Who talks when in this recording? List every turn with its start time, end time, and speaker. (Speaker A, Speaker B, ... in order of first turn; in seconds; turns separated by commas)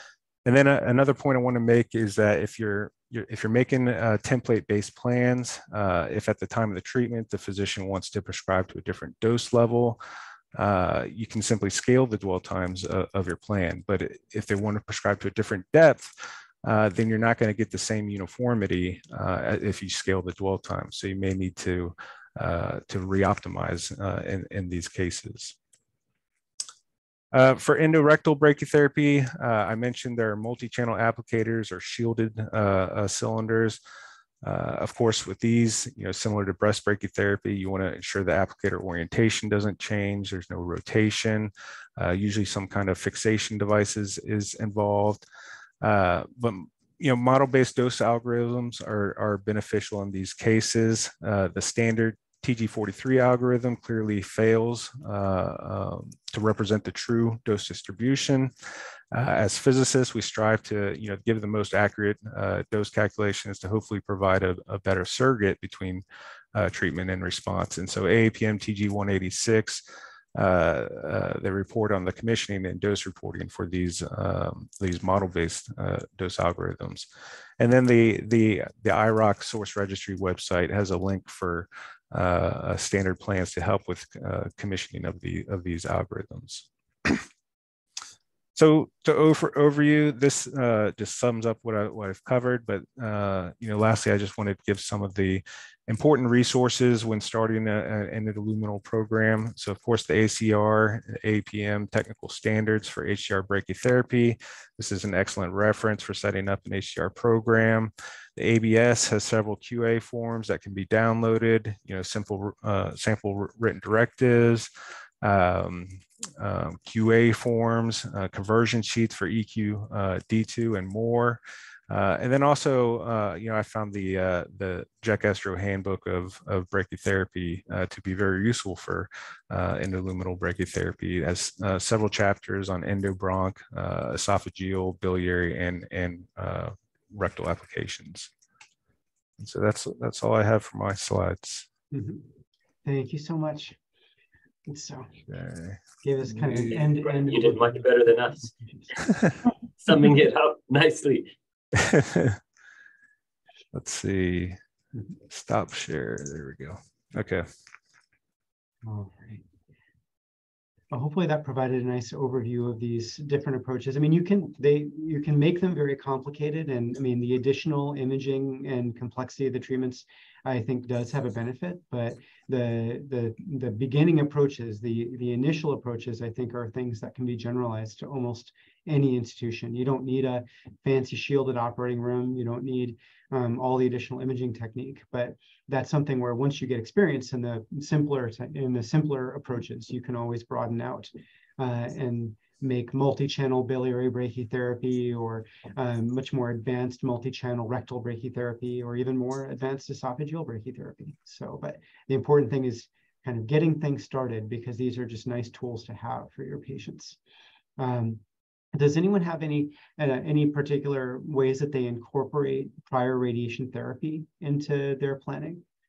Speaker A: 0.4-10.0, Speaker A: 10.6-16.1, Speaker A: 16.6-25.6, Speaker A: 27.3-33.8, Speaker A: 34.4-45.2, Speaker A: 45.8-58.5, Speaker A: 59.1-66.0, Speaker A: 66.5-69.8, Speaker A: 70.3-77.1, Speaker A: 77.6-87.2, Speaker A: 88.5-114.7, Speaker A: 115.2-138.3, Speaker A: 139.4-141.7, Speaker B: 141.9-142.2, Speaker B: 142.8-143.8, Speaker B: 144.7-145.1, Speaker A: 145.3-145.8, Speaker B: 146.0-147.8, Speaker A: 146.4-146.7, Speaker C: 146.5-149.1, Speaker B: 148.5-148.9, Speaker C: 149.8-151.3, Speaker A: 151.8-152.4, Speaker A: 153.7-154.6, Speaker A: 155.3-157.5, Speaker B: 158.8-159.4, Speaker B: 160.9-207.2, Speaker B: 207.8-208.2, Speaker B: 208.7-215.6